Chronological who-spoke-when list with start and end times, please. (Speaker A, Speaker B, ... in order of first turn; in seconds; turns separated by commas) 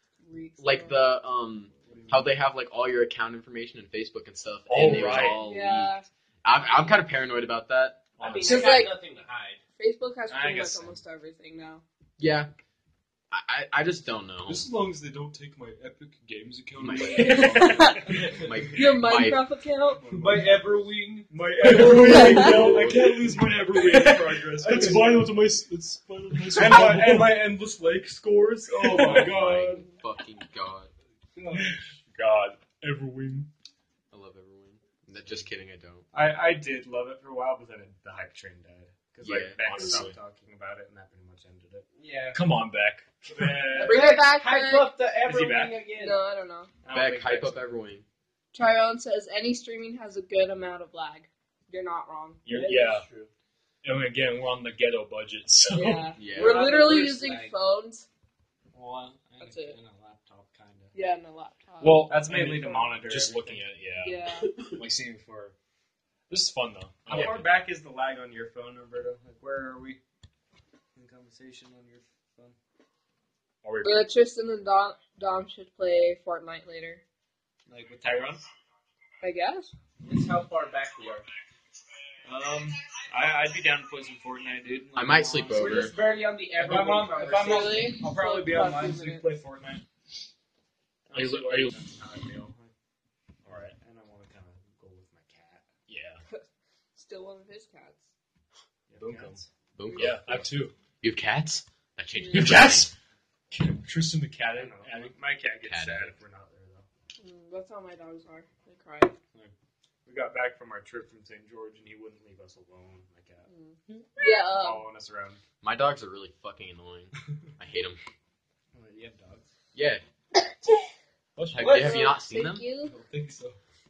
Speaker A: 0.2-1.0, Speaker B: 0.6-8.1, Speaker C: 1.8-2.3, Speaker D: 4.7-5.4, Speaker A: 4.8-6.0, Speaker D: 8.2-8.8, Speaker E: 8.2-9.6, Speaker A: 8.4-9.0, Speaker A: 9.8-11.8, Speaker C: 10.3-11.0, Speaker B: 12.2-12.5, Speaker B: 13.3-14.7, Speaker C: 14.5-18.8, Speaker B: 16.8-17.5, Speaker D: 17.1-18.2, Speaker A: 17.1-18.1, Speaker B: 18.4-19.4, Speaker A: 18.7-20.4, Speaker C: 19.9-20.8, Speaker E: 20.1-21.3, Speaker C: 21.3-25.3, Speaker D: 21.6-27.4, Speaker B: 22.0-23.2, Speaker A: 22.1-22.5, Speaker C: 26.5-29.9, Speaker D: 28.8-29.3, Speaker B: 29.0-30.9, Speaker C: 31.4-31.9, Speaker D: 31.5-33.5, Speaker B: 34.1-36.0, Speaker C: 36.1-41.8, Speaker B: 39.2-39.5, Speaker D: 39.5-40.2, Speaker E: 42.0-42.4, Speaker D: 42.3-43.5, Speaker C: 43.3-44.1, Speaker E: 43.7-46.2, Speaker A: 43.7-44.9, Speaker C: 45.2-45.8, Speaker A: 45.9-46.7, Speaker C: 46.8-47.6, Speaker B: 46.9-48.0, Speaker A: 48.5-52.4, Speaker D: 52.4-53.0, Speaker E: 52.5-53.3, Speaker D: 53.8-56.2, Speaker A: 55.7-58.0, Speaker B: 56.1-56.7, Speaker E: 56.3-57.5, Speaker C: 58.7-60.9, Speaker A: 59.4-59.8, Speaker A: 60.9-62.1, Speaker D: 61.8-65.5, Speaker C: 62.1-63.6, Speaker A: 63.9-64.6, Speaker D: 66.3-67.6, Speaker C: 67.1-70.0, Speaker C: 71.0-72.5, Speaker D: 73.6-74.1, Speaker A: 73.8-77.0, Speaker C: 77.7-78.4, Speaker A: 79.2-79.7, Speaker E: 80.0-81.3, Speaker C: 82.2-85.9, Speaker B: 84.9-85.9, Speaker E: 85.5-87.9, Speaker C: 86.6-89.8, Speaker A: 87.2-89.2, Speaker C: 91.1-92.7, Speaker D: 91.1-91.7, Speaker C: 93.4-95.7, Speaker D: 95.9-96.2, Speaker A: 96.9-98.0, Speaker C: 98.9-99.5, Speaker D: 99.0-99.4, Speaker B: 99.8-100.5, Speaker A: 99.9-100.2, Speaker D: 99.9-100.7, Speaker B: 101.0-102.9, Speaker A: 102.2-102.7, Speaker D: 102.3-102.9, Speaker D: 103.5-105.1, Speaker C: 104.5-106.8, Speaker B: 105.6-106.1, Speaker A: 107.2-109.1, Speaker C: 110.0-113.5, Speaker A: 113.5-114.8, Speaker C: 114.5-115.4, Speaker B: 115.6-118.0, Speaker C: 118.7-119.5, Speaker B: 119.7-120.0, Speaker D: 121.3-122.1, Speaker B: 121.5-122.7, Speaker E: 121.6-122.1, Speaker A: 121.7-122.9, Speaker C: 122.8-123.6